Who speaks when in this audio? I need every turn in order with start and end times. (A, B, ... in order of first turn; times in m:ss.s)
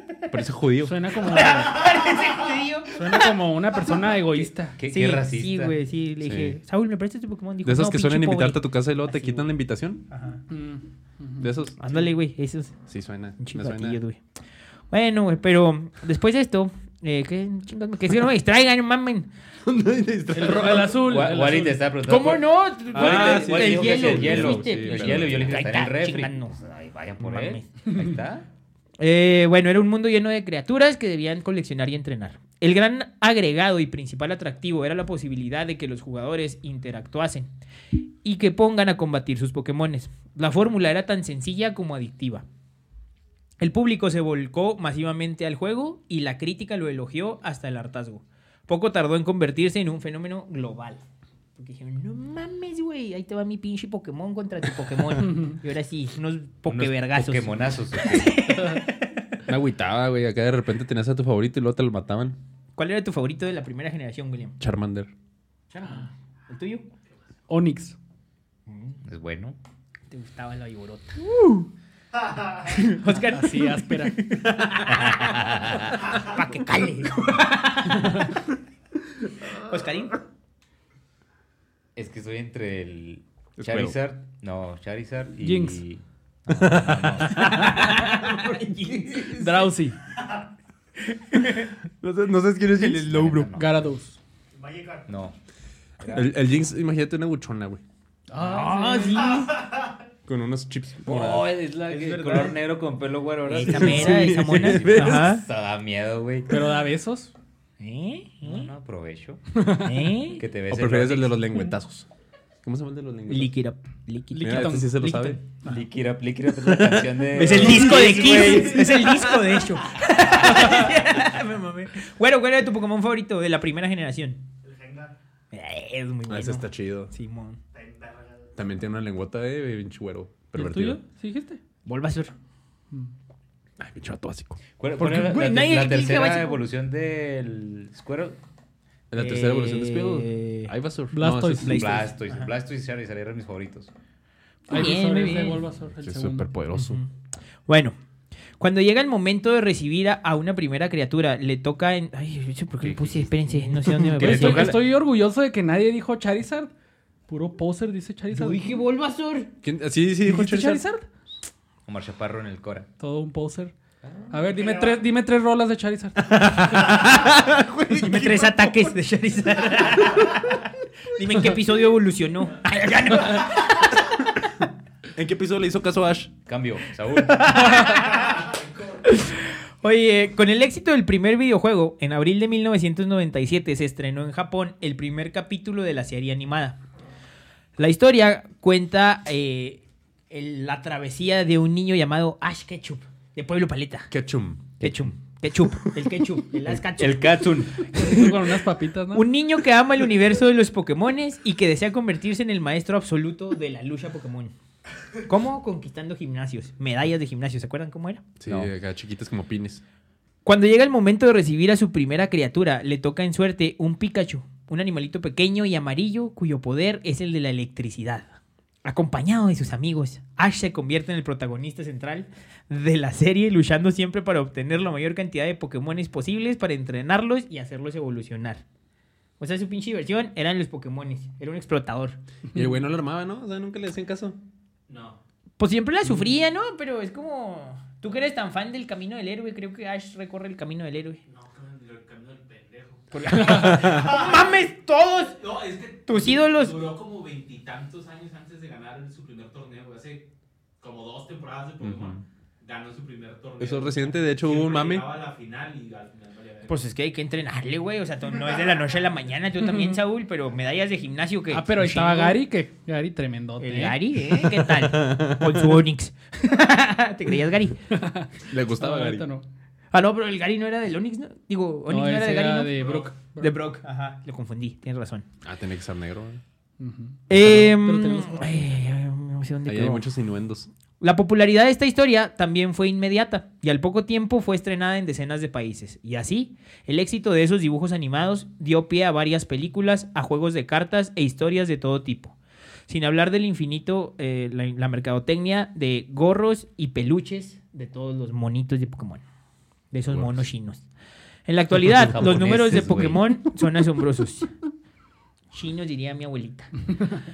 0:00.3-0:01.0 A
0:00.8-0:01.9 B
0:01.2-0:03.3 C
0:02.9-0:04.8 B
0:04.7-0:05.8 D
0:04.9-0:09.5 C
0:06.2-0:06.6 A
0:07.6-0:10.0 A
0:10.1-0:10.4 C
0:10.5-0:11.5 B
0:11.4-0:12.0 A
0:11.8-0:12.8 C
0:12.9-0:14.0 A
0:13.4-0:14.2 C
0:14.9-0:19.3 C
0:19.6-0:21.0 A
0:20.3-0:21.8 B
0:21.0-0:28.4 D
0:22.0-0:26.6 C
0:22.9-0:25.6 A
0:27.2-0:27.7 C
0:29.0-0:37.5 C
0:38.2-0:42.4 C
0:43.6-0:51.0 C
0:51.6-0:59.4 C
0:55.2-0:55.6 B
0:56.7-0:58.6 D
0:59.5-1:02.4 A
1:02.8-1:04.6 C
1:04.6-1:05.1 A
1:05.7-1:06.9 C
1:07.5-1:08.0 B
1:08.7-1:09.0 C
1:09.0-1:09.6 D
1:10.1-1:11.7 C
1:12.4-1:18.3 C
1:13.2-1:14.2 B
1:14.9-1:16.1 D
1:19.6-1:20.2 C
1:22.0-1:27.7 D
1:23.6-1:24.0 A
1:25.4-1:25.8 B
1:26.6-1:28.0 A
1:27.3-1:29.7 C
1:29.2-1:30.0 B
1:31.0-1:31.7 C
1:32.0-1:33.5 A
1:32.8-1:33.9 D
1:33.5-1:34.2 B
1:34.9-1:35.4 D
1:36.0-1:36.3 C
1:36.1-1:37.8 A
1:38.3-1:39.7 C
1:38.3-1:39.4 B
1:40.2-1:41.5 A
1:41.0-1:46.6 D
1:41.9-1:42.6 C
1:43.5-1:45.4 C
1:43.5-1:45.3 A
1:46.5-1:47.3 B
1:47.8-1:48.7 C
1:48.4-1:49.4 D
1:49.6-1:49.8 B
1:49.8-1:50.4 C
1:50.3-1:51.4 D
1:50.7-1:52.1 A
1:52.6-1:53.5 A
1:53.3-1:55.8 C
1:54.3-1:55.1 B
1:54.4-1:55.4 A
1:55.6-1:59.0 D
1:56.6-1:59.3 A
1:57.3-2:04.4 C
2:05.5-2:07.6 C
2:06.3-2:07.1 A
2:08.6-2:11.0 A
2:10.5-2:11.6 B
2:11.8-2:12.3 C
2:13.8-2:14.6 A
2:14.8-2:18.4 D
2:15.0-2:16.6 C
2:19.1-2:21.9 A
2:19.2-2:20.7 C
2:21.1-2:21.9 B
2:21.6-2:22.5 C
2:21.6-2:23.9 D
2:24.7-2:25.6 C
2:24.7-2:26.4 B
2:26.0-2:27.0 A
2:26.8-2:27.1 C
2:27.7-2:28.0 C
2:28.6-2:34.8 C
2:32.8-2:34.2 A
2:34.2-2:36.7 B
2:34.2-2:34.8 D
2:37.3-2:38.7 B
2:38.3-2:39.5 C
2:39.6-2:40.8 A
2:40.2-2:41.1 B
2:41.9-2:42.9 D
2:43.0-2:43.7 B
2:44.0-2:44.4 D
2:44.3-2:47.0 B
2:46.2-2:48.9 A
2:48.0-2:54.3 C
2:55.1-2:56.3 A
2:56.4-2:57.9 D
2:57.2-2:58.5 C
2:59.0-3:06.8 C
3:07.8-3:14.1 C
3:14.1-3:14.7 A
3:14.8-3:15.1 D
3:14.8-3:18.6 C
3:16.6-3:17.8 D
3:17.9-3:19.3 B
3:19.1-3:24.5 C
3:25.2-3:28.2 C
3:28.4-3:29.8 A
3:28.4-3:28.7 D
3:30.4-3:48.6 C
3:49.4-3:52.2 C
3:52.5-3:54.4 A
3:54.9-3:55.2 E
3:55.6-4:01.2 C
4:01.3-4:03.0 E
4:03.1-4:05.4 C
4:03.4-4:04.2 A
4:03.8-4:04.5 E
4:05.4-4:10.2 E
4:06.1-4:06.8 C
4:10.8-4:16.8 E
4:11.8-4:12.2 A
4:13.6-4:15.0 A
4:16.7-4:22.4 C
4:19.6-4:20.0 B
4:21.5-4:24.0 B
4:23.6-4:27.8 C
4:24.3-4:25.8 A
4:27.9-4:29.4 B
4:28.5-4:29.3 A
4:29.9-4:35.2 C
4:31.9-4:33.6 B
4:35.4-4:36.4 A
4:36.8-4:38.8 B
4:37.3-4:40.1 C
4:39.7-4:40.7 A
4:41.0-4:52.4 C
4:52.9-4:59.2 C
4:59.9-5:00.8 C
5:00.1-5:00.4 A
5:01.5-5:04.5 C
5:01.8-5:02.9 A
5:01.9-5:03.3 D
5:05.5-5:06.7 C